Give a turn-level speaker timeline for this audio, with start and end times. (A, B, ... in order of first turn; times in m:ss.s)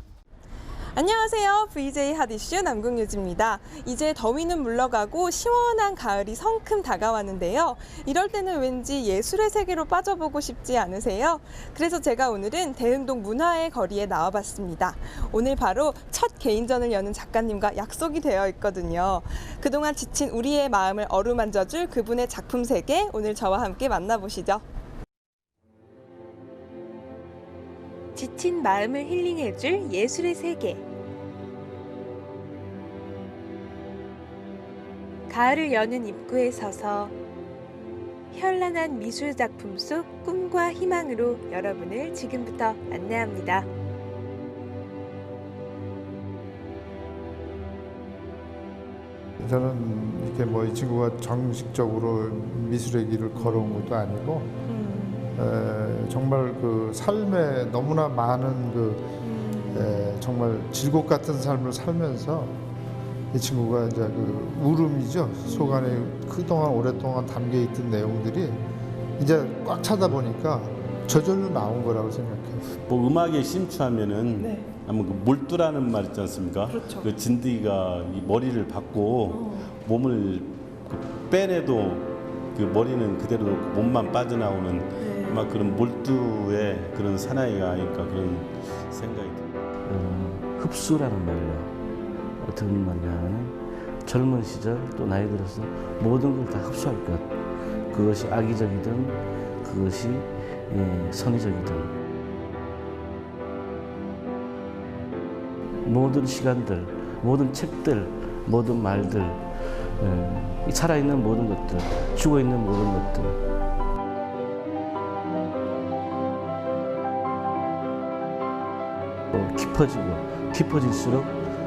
0:00.9-0:24.6 A
0:28.1-0:30.8 A
0:35.3-0:37.1 A
0:38.3-0:43.7 A
0:49.4-0:54.6 B
0:53.4-0:53.9 A
0:54.7-0:55.3 A
0:55.3-0:59.1 B
0:59.2-1:00.1 A
0:59.7-1:02.6 B
1:03.3-1:08.6 B
1:05.4-1:06.1 A
1:09.2-1:12.7 B
1:12.9-1:29.6 C
1:14.4-1:14.7 A
1:16.7-1:17.1 A
1:19.3-1:19.7 A
1:25.0-1:25.8 A
1:29.8-1:31.7 D
1:31.9-1:32.3 A
1:32.4-1:37.3 D
1:37.7-1:38.0 A
1:37.9-1:41.9 D
1:45.8-1:53.4 D
1:59.3-2:01.4 D